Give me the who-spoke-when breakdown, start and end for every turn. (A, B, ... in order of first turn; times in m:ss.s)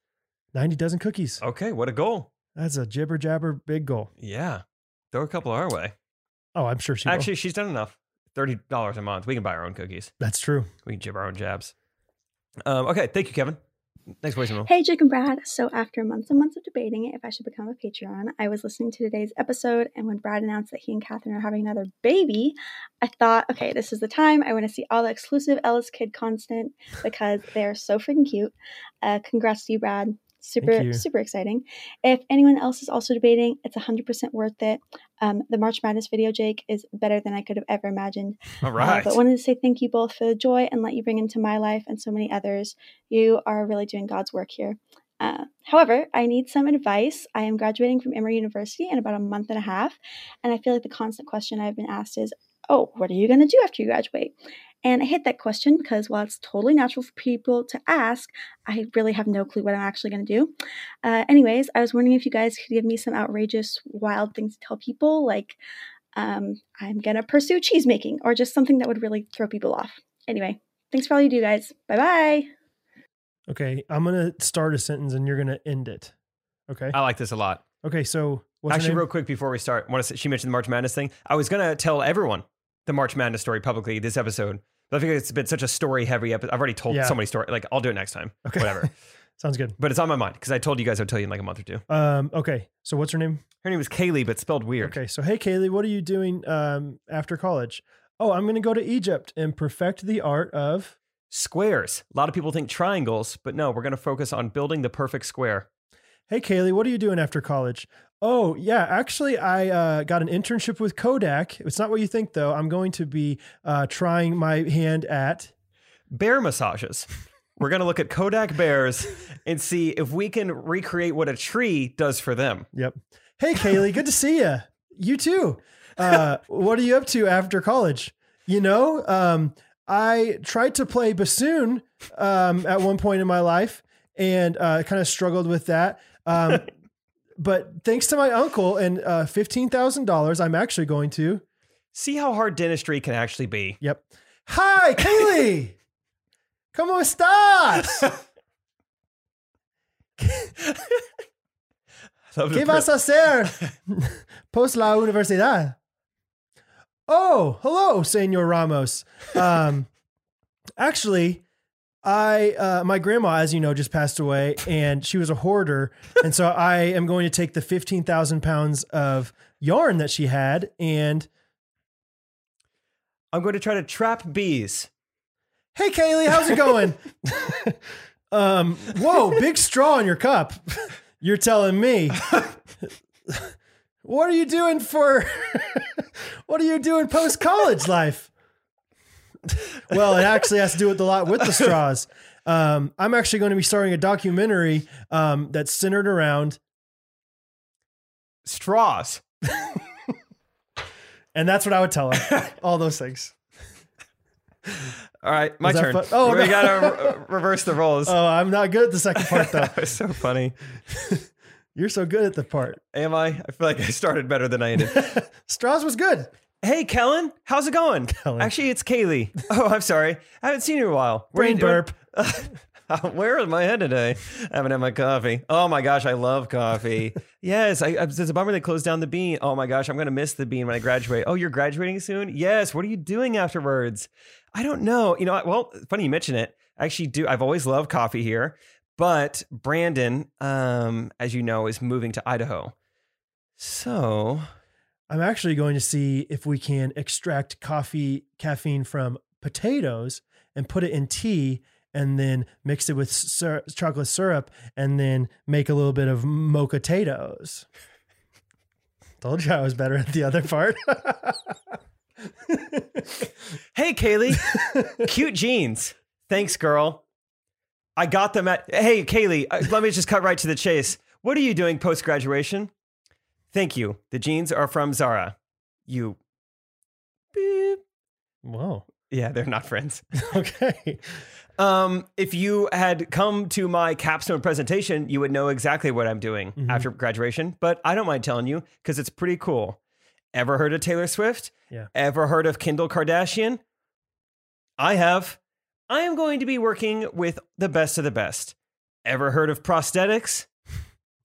0:00.5-0:01.4 A
0:01.4-0:02.3 B
0:02.6-0:04.1 A
0:04.2-0:06.0 B
0:06.6-0:07.3 A
0:07.1-0:10.1 B
0:10.2-0:10.7 A
0:10.9-0:11.7 B
0:12.6-0:13.6 B
0:14.2-0:14.7 B
0:14.6-1:05.6 C
0:30.6-0:31.0 A
0:38.6-0:39.2 B
1:06.2-1:12.5 C
1:13.5-1:16.1 A
1:16.7-1:17.0 A
1:16.9-1:17.6 B
1:17.8-1:19.0 A
1:18.7-1:28.9 B
1:26.9-1:27.2 A
1:28.4-1:29.8 A
1:29.8-1:31.8 B
1:31.9-1:33.4 A
1:33.6-1:35.0 B
1:34.8-1:41.0 A
1:41.3-1:45.7 B
1:46.3-1:55.5 A
1:56.1-1:57.1 B
1:57.6-2:02.7 B
2:02.7-2:16.7 A
2:17.4-2:21.4 A
2:21.9-2:23.8 B
2:23.8-2:25.8 A
2:26.7-2:28.1 A
2:30.2-2:30.5 A
2:30.7-2:30.9 B
2:32.3-2:32.9 B
2:32.5-2:35.8 A
2:37.1-2:39.9 A
2:40.8-2:41.4 A
2:42.0-2:51.3 A
2:53.3-2:54.9 B
2:55.8-2:57.8 A
2:58.3-3:02.2 A
3:04.0-3:08.3 A
3:09.9-3:16.6 A
3:11.4-3:11.7 B
3:18.4-3:19.2 B
3:21.4-3:23.3 A
3:25.2-3:28.2 B
3:25.6-3:27.2 A
3:28.1-3:29.8 A
3:29.2-3:30.6 B
3:31.8-3:32.8 A
3:32.9-3:35.2 B
3:34.8-3:36.3 A
3:36.6-4:02.7 B
3:38.1-3:38.5 A
3:41.3-3:41.9 A
4:03.6-4:04.5 B
4:05.1-4:17.7 A
4:19.2-4:21.5 A
4:22.5-4:23.1 A
4:23.7-4:27.0 B
4:24.7-4:25.0 A
4:28.0-4:32.7 B
4:33.5-4:35.4 B
4:35.9-4:36.2 B
4:37.3-4:37.8 B
4:38.4-4:38.8 A
4:39.1-4:40.0 B
4:40.2-4:41.0 A
4:41.6-4:49.8 B
4:46.6-4:46.9 A
4:50.3-4:53.6 B
4:54.8-4:55.4 B
4:55.9-5:00.5 B